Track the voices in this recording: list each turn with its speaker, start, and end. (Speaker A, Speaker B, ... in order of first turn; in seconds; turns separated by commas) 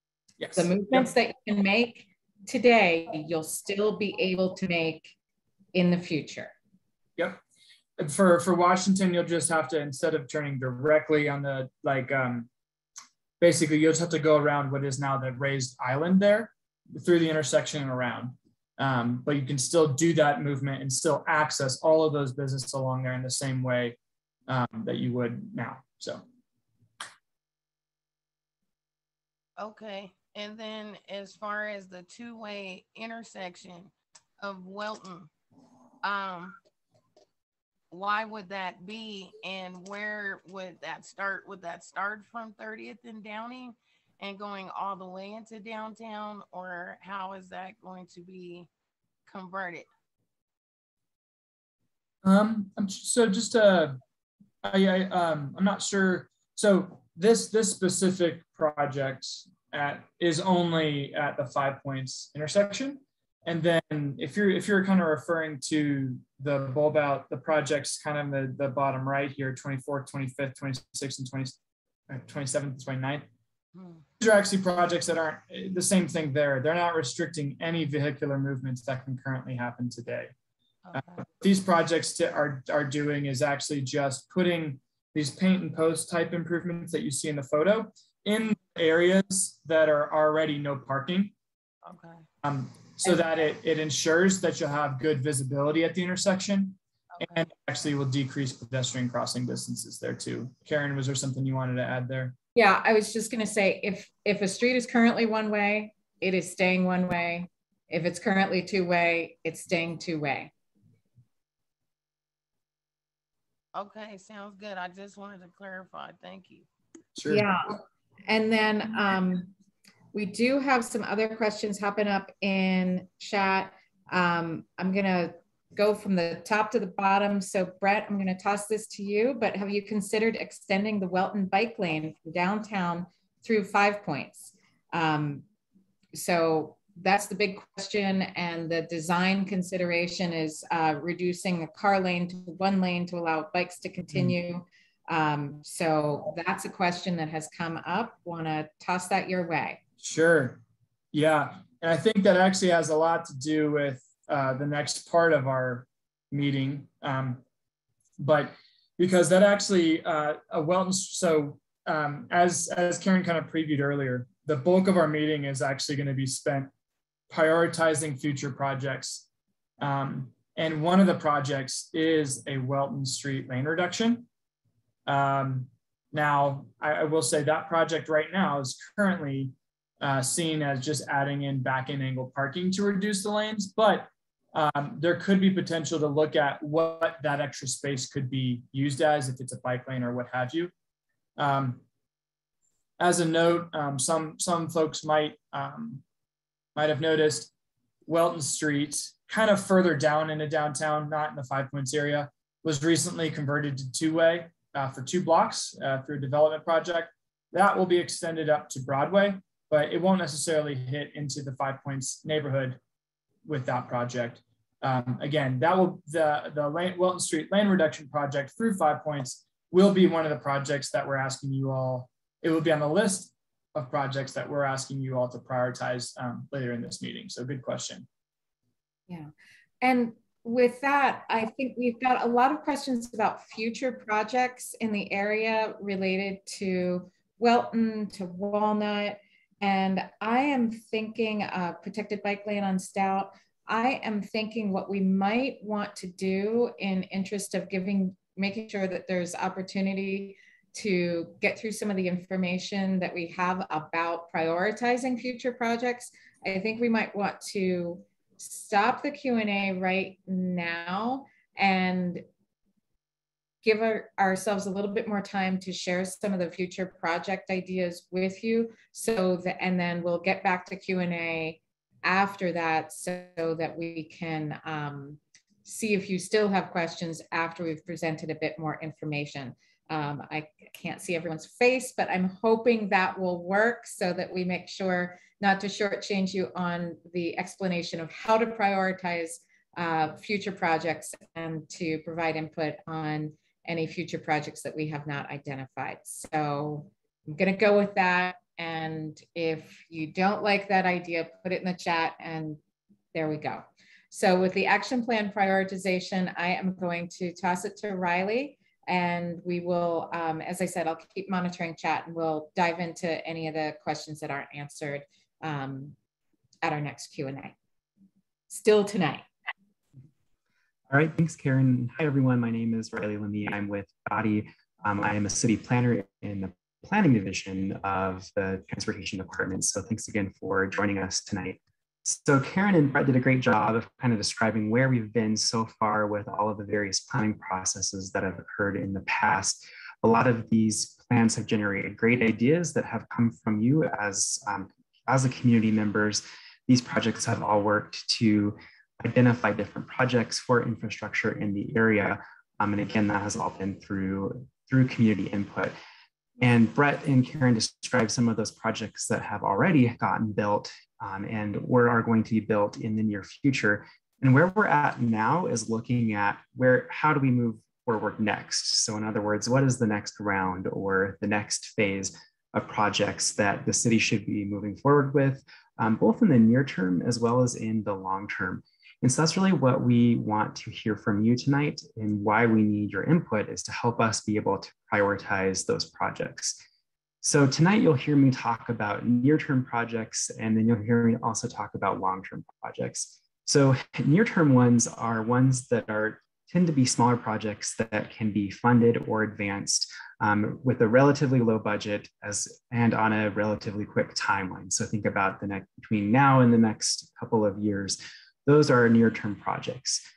Speaker A: 0.4-1.1, Speaker B: 0.5-5.1, Speaker B: 5.7-6.5, Speaker A: 8.0-12.5, Speaker A: 13.4-26.2, Speaker C: 29.6-35.3, Speaker C: 36.0-36.5, Speaker C: 37.9-48.7, Speaker C: 49.3-49.9, Speaker A: 52.2-54.0, Speaker A: 54.6-71.6, Speaker A: 72.1-73.3, Speaker C: 73.7-74.0, Speaker A: 74.2-80.3, Speaker C: 80.8-81.3, Speaker A: 80.9-91.3, Speaker C: 91.8-92.2, Speaker A: 92.4-102.3, Speaker C: 97.1-97.5, Speaker B: 102.5-110.5, Speaker C: 113.7-116.7, Speaker A: 117.1-117.5, Speaker B: 117.3-119.5, Speaker B: 120.1-135.4, Speaker B: 136.1-149.8, Speaker A: 150.0-150.6, Speaker A: 151.1-157.4, Speaker A: 158.2-166.7, Speaker A: 167.3-169.2, Speaker A: 169.8-174.3, Speaker A: 175.1-190.7, Speaker A: 191.4-191.8, Speaker A: 193.0-196.0, Speaker A: 196.7-197.5, Speaker A: 198.1-212.8, Speaker A: 213.4-228.1, Speaker B: 229.8-262.2, Speaker B: 263.6-302.6, Speaker B: 303.1-315.9, Speaker B: 316.6-317.5, Speaker B: 318.5-319.2, Speaker D: 320.9-355.7, Speaker D: 356.4-386.6, Speaker D: 387.2-410.0